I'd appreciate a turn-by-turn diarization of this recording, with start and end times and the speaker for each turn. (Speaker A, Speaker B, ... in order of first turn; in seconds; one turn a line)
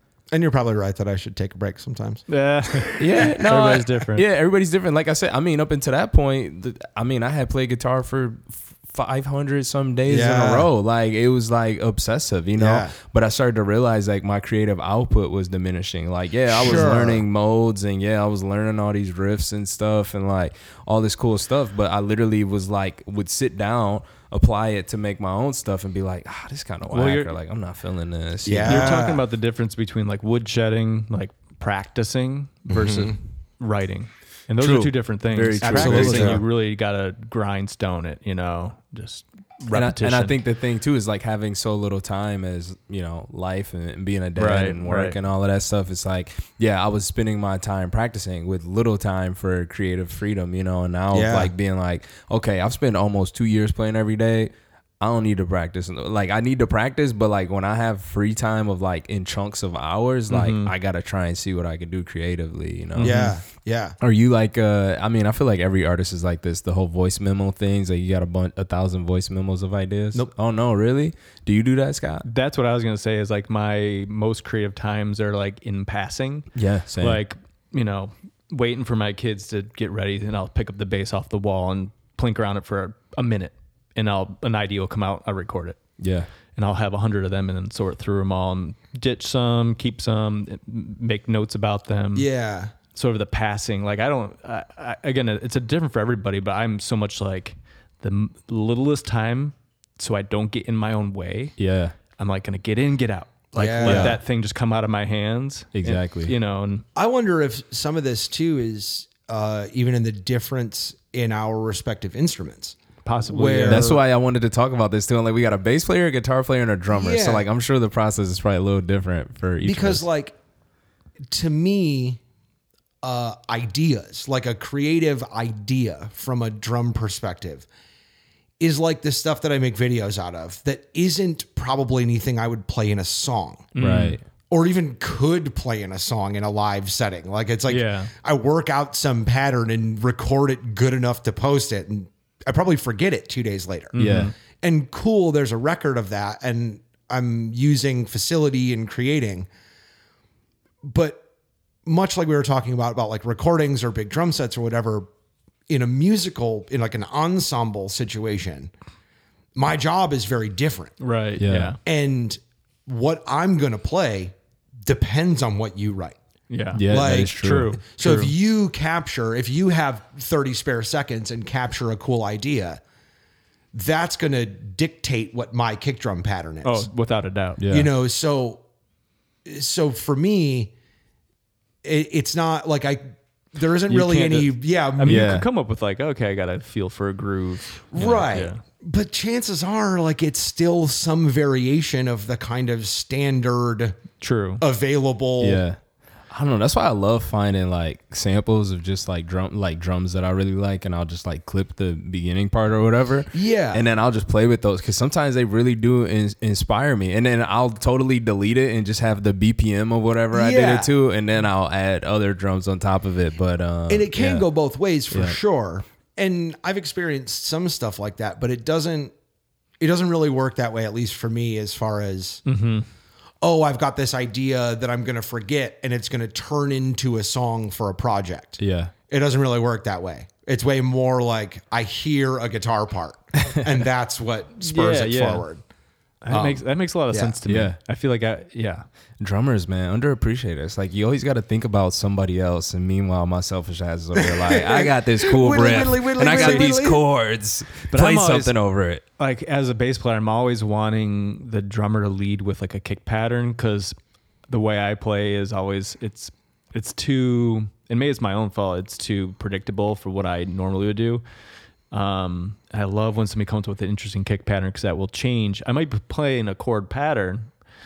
Speaker A: 0.3-2.2
Speaker B: 2.3-4.2
Speaker C: 3.0-29.0
Speaker A: 10.1-10.7
Speaker A: 12.6-12.9
Speaker A: 16.5-17.2
Speaker B: 26.9-27.3
Speaker A: 28.4-29.2
Speaker B: 28.6-40.4
Speaker A: 32.7-33.1
Speaker C: 34.6-36.4
Speaker A: 35.6-36.4
Speaker C: 39.7-63.3
Speaker B: 44.4-45.1
Speaker A: 51.1-51.5
Speaker B: 60.3-60.7
Speaker B: 63.0-63.3
Speaker A: 63.0-64.0
Speaker C: 64.0-72.2
Speaker B: 72.2-76.5
Speaker C: 76.5-77.2
Speaker B: 77.0-85.8
Speaker C: 86.0-86.3
Speaker B: 86.5-92.3
Speaker A: 92.1-92.7
Speaker B: 92.9-101.5
Speaker C: 101.6-101.9
Speaker B: 102.2-106.8
Speaker A: 103.5-104.2
Speaker C: 103.8-104.2
Speaker C: 105.7-106.3
Speaker A: 107.0-112.8
Speaker B: 113.0-113.9
Speaker A: 113.3-114.0
Speaker C: 113.6-120.0
Speaker A: 116.9-117.5
Speaker A: 119.6-120.3
Speaker A: 121.3-122.2
Speaker A: 123.0-127.7
Speaker A: 128.6-133.7
Speaker B: 133.8-134.2
Speaker C: 133.8-134.2
Speaker A: 134.5-143.9
Speaker B: 137.7-138.1
Speaker B: 143.9-144.3
Speaker C: 143.9-144.3
Speaker A: 144.6-149.5
Speaker A: 150.8-151.2
Speaker A: 151.8-155.1
Speaker A: 155.7-158.7
Speaker A: 159.5-161.0
Speaker B: 161.0-161.8
Speaker C: 161.4-161.7
Speaker A: 161.8-166.2
Speaker B: 166.5-168.3
Speaker C: 166.7-167.7
Speaker A: 166.9-172.8
Speaker A: 173.7-176.9
Speaker B: 176.6-177.6
Speaker C: 177.6-177.9
Speaker A: 177.7-178.6
Speaker A: 179.4-180.7
Speaker A: 181.8-185.3
Speaker B: 183.9-188.6
Speaker C: 185.0-185.4
Speaker A: 187.9-194.0
Speaker B: 194.2-194.6
Speaker A: 194.6-195.6
Speaker C: 195.4-195.8
Speaker C: 196.3-214.4
Speaker A: 203.3-203.8
Speaker A: 210.3-210.9
Speaker A: 213.9-219.1
Speaker C: 215.1-215.4
Speaker A: 219.8-222.4
Speaker B: 222.4-222.8
Speaker A: 223.4-235.6
Speaker C: 228.6-228.9
Speaker B: 234.6-235.4
Speaker B: 236.2-238.8
Speaker A: 236.3-237.3
Speaker C: 237.4-237.8
Speaker C: 239.2-249.0
Speaker A: 244.2-247.0
Speaker B: 246.2-246.7
Speaker B: 247.9-248.6
Speaker B: 249.2-253.9
Speaker B: 254.5-261.2
Speaker B: 261.9-267.5